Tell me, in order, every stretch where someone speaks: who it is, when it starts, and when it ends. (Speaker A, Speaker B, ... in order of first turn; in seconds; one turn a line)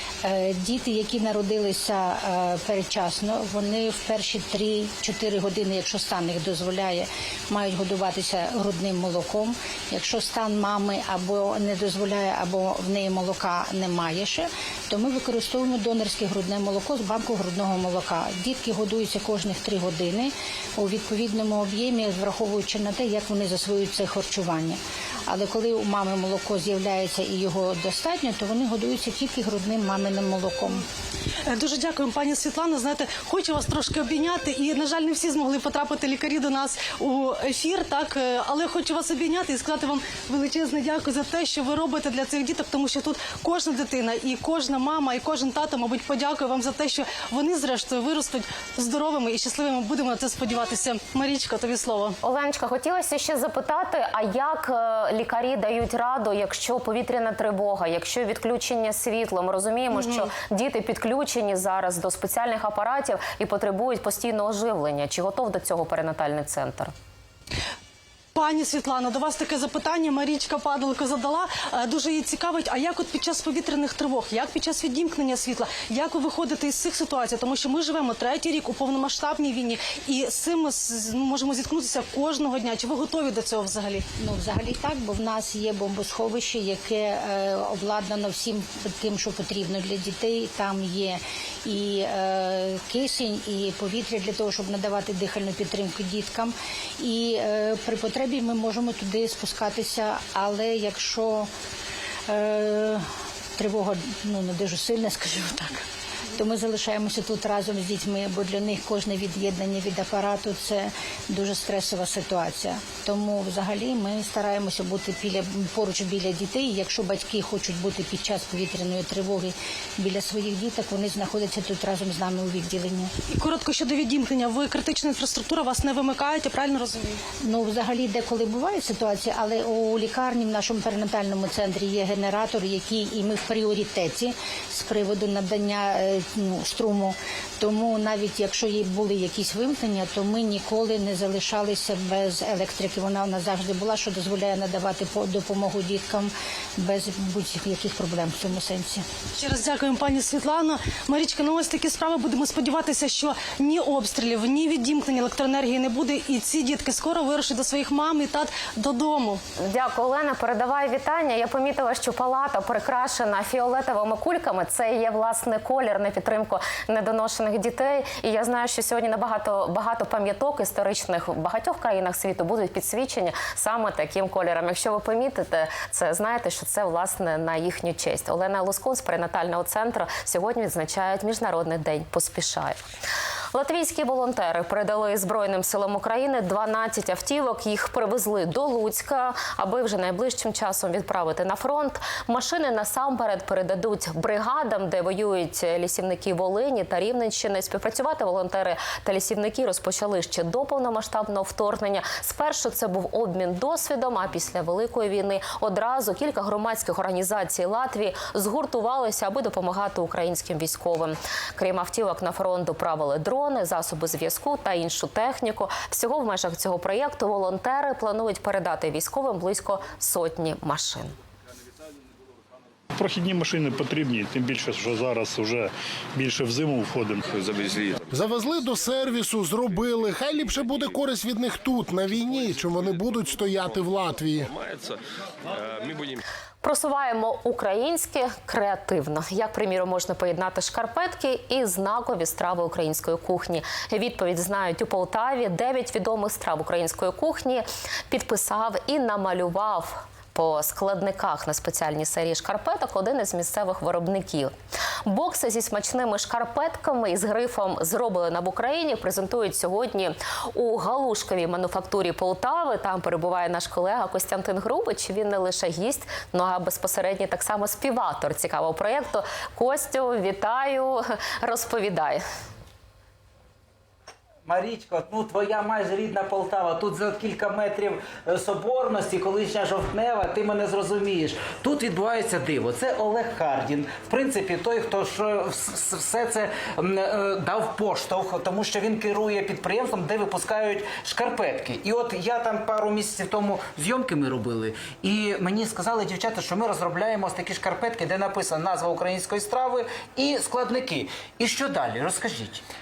Speaker A: 0.2-30.8
Speaker B: 31.5-52.2
Speaker C: 52.2-66.9
Speaker B: 59.9-60.3
Speaker B: 68.3-84.1
Speaker A: 84.2-101.5
Speaker A: 102.3-123.1
Speaker B: 123.3-127.2
Speaker A: 127.4-149.1
Speaker B: 149.4-159.4
Speaker C: 159.6-182.8
Speaker C: 183.5-221.1
Speaker D: 222.9-227.8
Speaker E: 228.1-234.5
Speaker C: 236.6-254.5
Speaker C: 255.1-272.2
Speaker F: 274.5-302.6